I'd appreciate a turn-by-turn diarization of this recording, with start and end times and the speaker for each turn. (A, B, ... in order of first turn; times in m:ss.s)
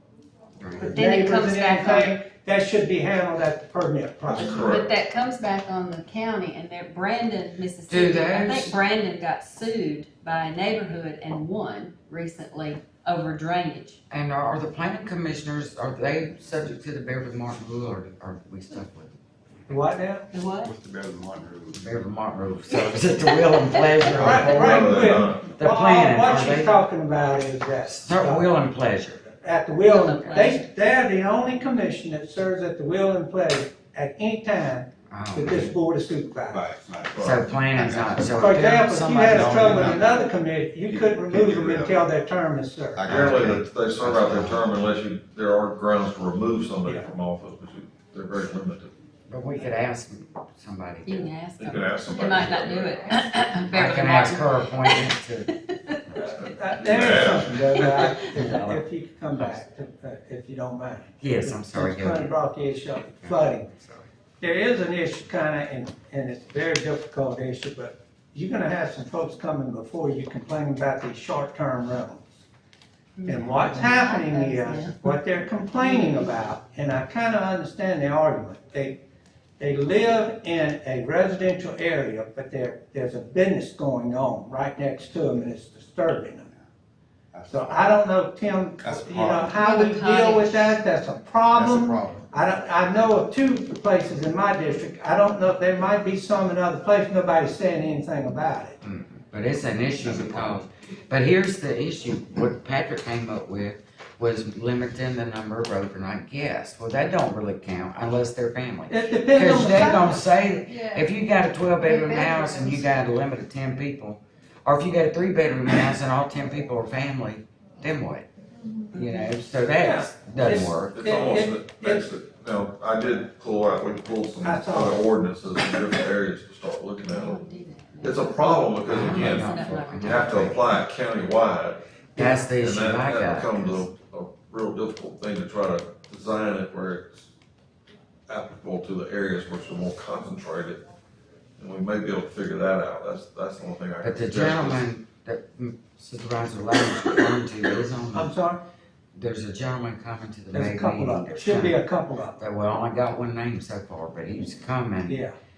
0:00.6-0:01.0 A
0:00.8-0:04.7 B
0:00.9-0:02.1 C
0:04.2-0:04.9 D
0:04.4-0:14.0 C
0:07.9-0:08.8 A
0:14.1-0:19.1 A
0:19.7-0:20.3 B
0:20.3-0:20.7 C
0:20.6-0:22.0 E
0:21.7-0:26.8 A
0:23.8-0:24.4 C
0:24.2-0:28.5 B
0:24.2-0:25.5 D
0:27.8-0:29.2 A
0:29.4-0:36.7 B
0:29.8-0:30.6 C
0:35.1-0:35.8 A
0:36.5-0:38.4 E
0:37.1-0:37.4 D
0:37.2-0:40.2 A
0:38.4-0:43.1 B
0:39.5-0:40.0 E
0:40.9-0:42.0 E
0:42.9-0:43.7 E
0:43.1-0:48.9 D
0:43.2-0:44.6 A
0:49.3-0:51.3 A
0:51.0-0:55.1 C
0:51.6-0:53.3 D
0:53.7-0:55.5 A
0:56.2-0:57.8 D
0:56.4-1:03.7 B
0:57.8-0:58.4 C
0:58.2-0:58.8 A
1:01.2-1:02.3 A
1:03.0-1:03.9 A
1:04.4-1:12.4 B
1:13.2-1:15.0 C
1:13.3-1:19.0 B
1:15.8-1:16.3 C
1:19.6-1:26.5 B
1:27.3-1:28.0 E
1:27.5-1:38.8 B
1:28.8-1:29.6 E
1:29.6-1:30.8 C
1:31.5-1:32.3 E
1:38.8-1:58.3 A
1:48.9-1:50.3 B
1:51.9-1:52.9 C
1:58.9-1:59.3 C
1:58.9-2:01.0 A
1:59.8-2:02.1 B
2:00.9-2:07.4 D
2:04.4-2:05.0 B
2:07.0-2:10.8 C
2:08.0-2:11.8 D
2:08.9-2:10.6 A
2:12.2-2:13.8 A
2:12.5-2:17.3 D
2:18.3-2:20.8 D
2:21.6-2:24.8 D
2:24.0-2:28.3 A
2:28.1-2:28.6 B
2:29.2-2:31.8 A
2:30.5-2:32.4 B
2:32.4-2:35.2 A
2:35.1-2:35.3 B